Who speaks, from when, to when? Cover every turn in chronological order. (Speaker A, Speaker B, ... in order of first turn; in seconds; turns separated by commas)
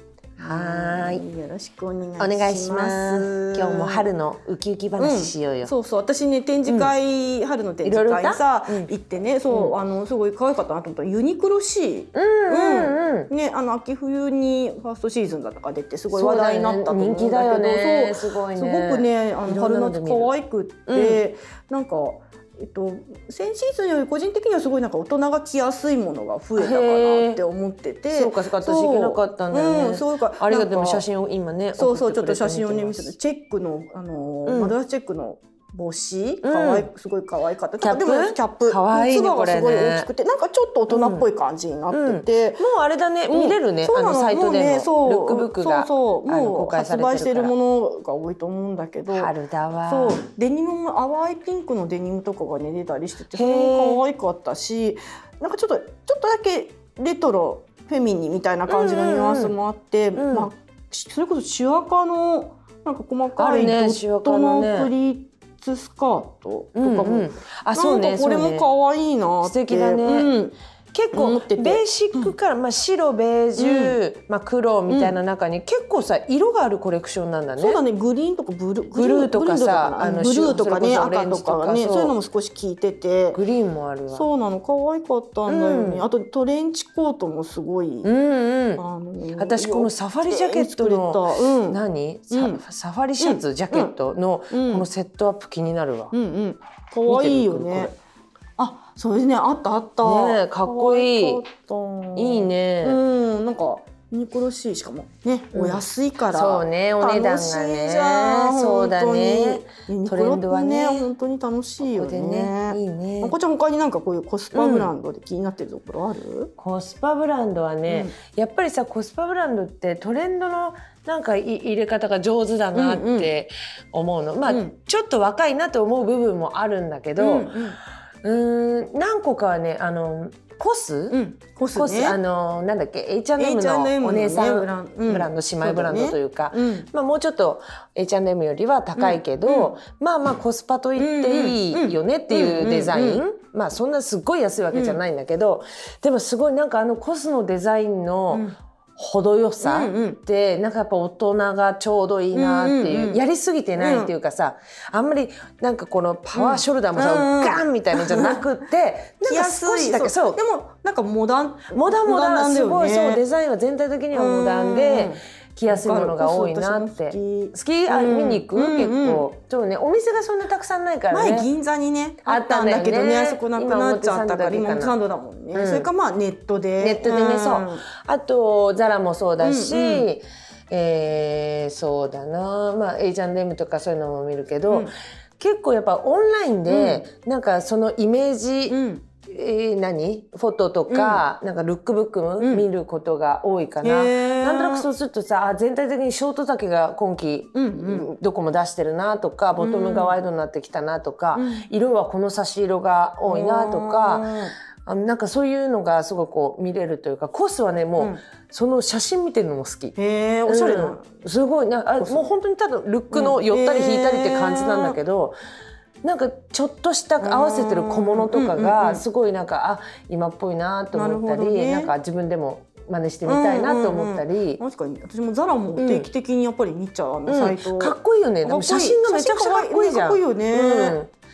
Speaker A: 0.4-4.1, Speaker B: 0.4-1.2, Speaker B: 2.2-5.7, Speaker A: 5.0-31.0, Speaker B: 6.7-6.9, Speaker B: 7.8-8.9, Speaker B: 12.1-13.3, Speaker B: 16.1-20.3, Speaker B: 20.9-21.2, Speaker B: 26.6-27.4, Speaker B: 28.1-33.1, Speaker A: 31.8-42.7, Speaker B: 34.5-34.8, Speaker B: 36.4-36.9, Speaker B: 37.8-40.1, Speaker B: 40.9-41.3, Speaker B: 41.9-47.5, Speaker A: 43.3-49.3, Speaker B: 49.1-50.2, Speaker A: 49.9-70.5, Speaker B: 53.3-54.0, Speaker B: 58.7-59.5, Speaker B: 60.1-60.5, Speaker B: 63.4-64.9, Speaker B: 66.7-68.7, Speaker B: 69.4-70.3, Speaker B: 70.9-77.8, Speaker A: 71.1-72.3, Speaker A: 73.5-74.0, Speaker A: 74.9-75.2, Speaker A: 77.6-83.4, Speaker B: 78.9-82.1, Speaker B: 83.3-84.2, Speaker A: 84.1-88.1, Speaker B: 85.5-86.0, Speaker B: 88.0-88.8, Speaker A: 88.8-91.8, Speaker B: 89.4-96.1, Speaker A: 92.3-92.6, Speaker A: 93.2-93.9, Speaker A: 94.5-94.9, Speaker A: 96.1-97.9, Speaker B: 97.0-97.9, Speaker A: 98.6-116.5, Speaker B: 100.0-101.4, Speaker B: 102.2-103.0, Speaker B: 105.5-111.1, Speaker B: 111.9-113.3, Speaker B: 114.5-114.9, Speaker B: 116.6-127.5, Speaker A: 117.9-118.1, Speaker A: 122.7-123.3, Speaker A: 124.5-124.7, Speaker A: 127.2-127.8, Speaker B: 128.2-131.2, Speaker A: 131.1-132.2, Speaker B: 131.7-160.4, Speaker A: 133.4-136.9, Speaker A: 139.0-139.7, Speaker A: 140.9-143.2, Speaker A: 144.7-145.0, Speaker A: 149.6-150.2, Speaker A: 152.3-153.2, Speaker A: 153.8-154.1, Speaker A: 156.3-158.4, Speaker A: 159.2-163.2, Speaker B: 161.7-171.5, Speaker A: 164.1-169.2, Speaker A: 171.1-177.8, Speaker B: 172.2-174.9, Speaker B: 175.5-175.9, Speaker B: 176.8-204.3, Speaker A: 179.4-180.1, Speaker A: 186.7-187.0, Speaker A: 188.7-189.0, Speaker A: 190.9-191.2, Speaker A: 192.4-192.7, Speaker A: 193.8-194.9, Speaker A: 197.5-198.1, Speaker A: 199.6-200.1, Speaker A: 201.3-201.7, Speaker A: 203.2-204.5, Speaker B: 204.8-209.9, Speaker A: 209.9-211.1, Speaker B: 210.5-215.3, Speaker A: 212.0-212.3, Speaker A: 213.1-215.0, Speaker B: 216.0-224.6, Speaker A: 217.2-219.0, Speaker A: 220.9-221.9, Speaker A: 223.2-231.0, Speaker B: 225.8-226.1, Speaker B: 227.3-231.1